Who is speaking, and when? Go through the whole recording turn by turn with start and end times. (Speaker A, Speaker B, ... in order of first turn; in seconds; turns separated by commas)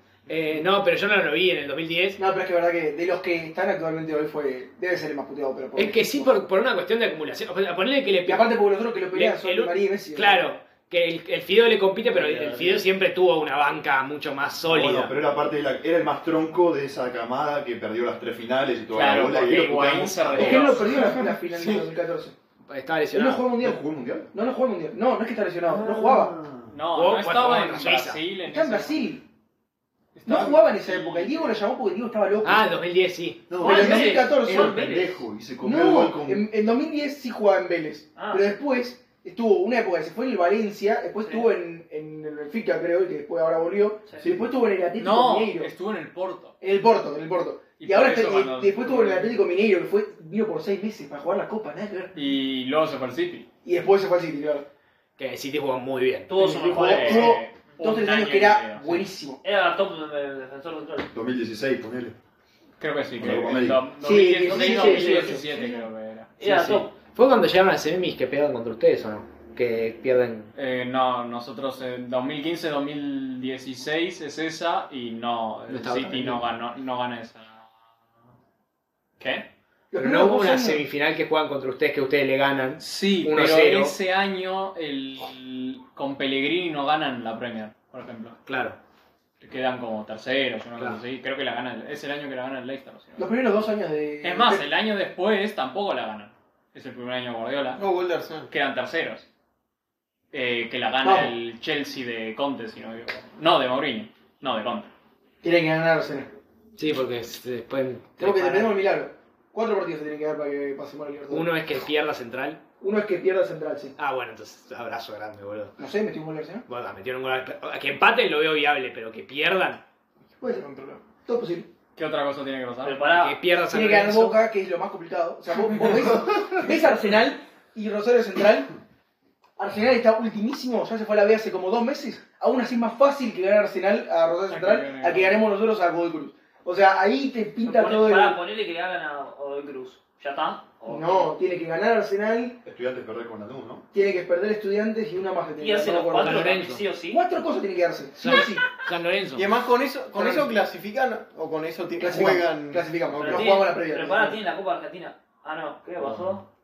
Speaker A: 0.3-2.2, Speaker B: 2.2-6.4, Speaker A: 5.8-8.6, Speaker B: 8.2-10.5, Speaker A: 9.1-15.2, Speaker C: 14.6-20.7, Speaker D: 18.9-21.2, Speaker B: 20.3-22.4, Speaker E: 20.8-21.9, Speaker A: 22.7-23.5, Speaker B: 23.1-26.3, Speaker C: 23.6-24.3, Speaker C: 25.7-26.7, Speaker D: 26.7-29.0, Speaker A: 26.9-28.2, Speaker B: 28.5-29.2, Speaker D: 30.1-31.5, Speaker B: 30.2-32.7, Speaker A: 32.4-33.5, Speaker C: 33.5-36.5, Speaker F: 33.6-35.2, Speaker B: 33.6-34.8, Speaker B: 35.6-45.7, Speaker F: 38.1-38.5, Speaker F: 41.2-41.5, Speaker D: 45.0-46.5, Speaker B: 46.6-52.1, Speaker D: 47.8-49.4, Speaker D: 52.1-53.5, Speaker B: 53.6-54.6, Speaker A: 55.2-56.4, Speaker F: 56.3-57.4, Speaker B: 56.4-59.4, Speaker D: 56.4-59.0, Speaker F: 59.4-61.1, Speaker C: 61.1-62.1, Speaker D: 62.8-66.3, Speaker C: 63.2-63.9, Speaker B: 64.0-65.7, Speaker A: 64.5-65.6, Speaker F: 66.4-66.9, Speaker A: 66.4-70.5, Speaker D: 70.5-77.7, Speaker A: 75.7-76.4, Speaker D: 79.2-79.5, Speaker B: 79.9-80.8, Speaker A: 80.0-83.9, Speaker D: 82.8-88.4, Speaker A: 88.5-88.8, Speaker D: 89.4-93.3, Speaker B: 93.2-94.7, Speaker D: 94.2-97.8, Speaker E: 97.8-98.5, Speaker D: 98.5-99.2, Speaker D: 100.3-104.9, Speaker B: 101.0-101.3, Speaker B: 105.4-106.3, Speaker A: 106.8-108.8, Speaker B: 108.2-111.5, Speaker A: 111.3-112.6, Speaker B: 112.8-113.9, Speaker A: 114.0-115.8, Speaker B: 115.8-116.6, Speaker A: 116.7-119.8, Speaker B: 120.4-121.7, Speaker E: 120.4-121.0, Speaker D: 121.9-123.0, Speaker F: 122.8-123.4, Speaker A: 123.1-124.4, Speaker B: 123.7-128.7, Speaker B: 129.6-138.4, Speaker D: 134.5-135.4, Speaker F: 137.6-141.3, Speaker B: 140.9-142.6, Speaker C: 142.6-143.8, Speaker B: 143.9-148.7, Speaker F: 145.6-147.2, Speaker A: 146.2-146.8, Speaker A: 148.2-149.5, Speaker E: 149.3-153.0, Speaker B: 150.1-150.5, Speaker B: 152.0-154.4, Speaker F: 153.2-156.4